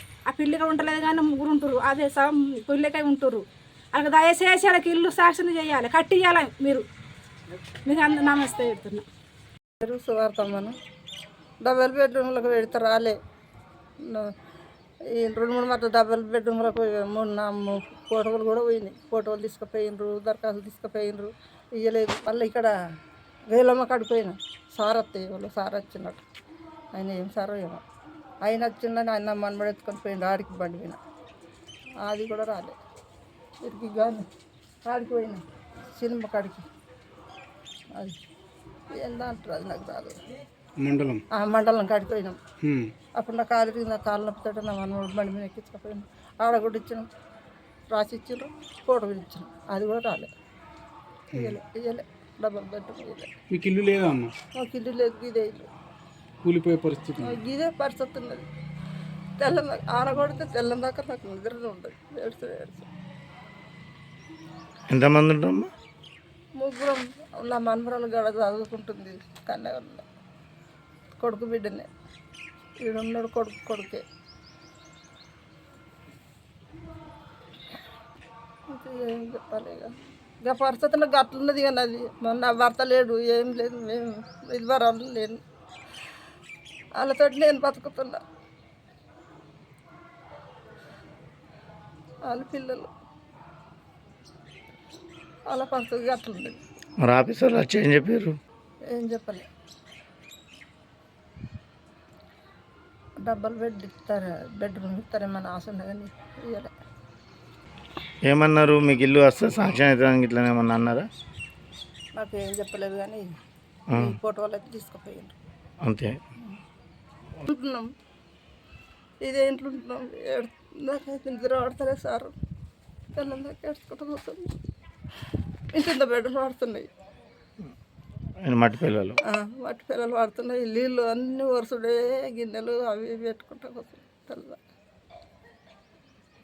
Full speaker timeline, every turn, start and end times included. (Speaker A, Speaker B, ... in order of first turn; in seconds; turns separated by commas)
Speaker A: 0.3-6.8, Speaker A: 7.9-9.1, Speaker B: 9.8-10.7, Speaker B: 11.7-13.2, Speaker B: 15.2-22.7, Speaker B: 23.5-26.2, Speaker B: 27.0-27.8, Speaker B: 28.5-31.0, Speaker B: 32.1-32.8, Speaker B: 33.7-34.2, Speaker B: 34.9-35.4, Speaker B: 36.0-36.6, Speaker B: 39.0-40.1, Speaker C: 40.8-41.2, Speaker B: 41.4-42.4, Speaker C: 42.6-42.9, Speaker B: 43.2-47.0, Speaker B: 47.9-50.3, Speaker C: 51.3-51.6, Speaker B: 51.5-53.3, Speaker C: 53.5-54.3, Speaker B: 54.6-55.7, Speaker C: 56.4-57.4, Speaker B: 57.5-58.5, Speaker B: 59.4-62.9, Speaker D: 64.9-65.7, Speaker B: 66.6-70.0, Speaker B: 71.2-71.9, Speaker B: 72.8-74.0, Speaker B: 78.8-79.9, Speaker B: 80.5-85.4, Speaker B: 87.0-88.2, Speaker B: 92.3-92.9, Speaker B: 95.5-96.6, Speaker D: 97.0-98.3, Speaker B: 98.9-99.5, Speaker B: 103.2-106.7, Speaker D: 108.2-111.1, Speaker B: 112.2-113.3, Speaker D: 113.9-114.2, Speaker B: 114.0-115.3, Speaker D: 115.8-116.2, Speaker B: 117.5-117.9, Speaker B: 119.3-122.3, Speaker B: 123.2-124.4, Speaker B: 125.7-126.9, Speaker D: 128.4-129.2, Speaker B: 129.3-134.6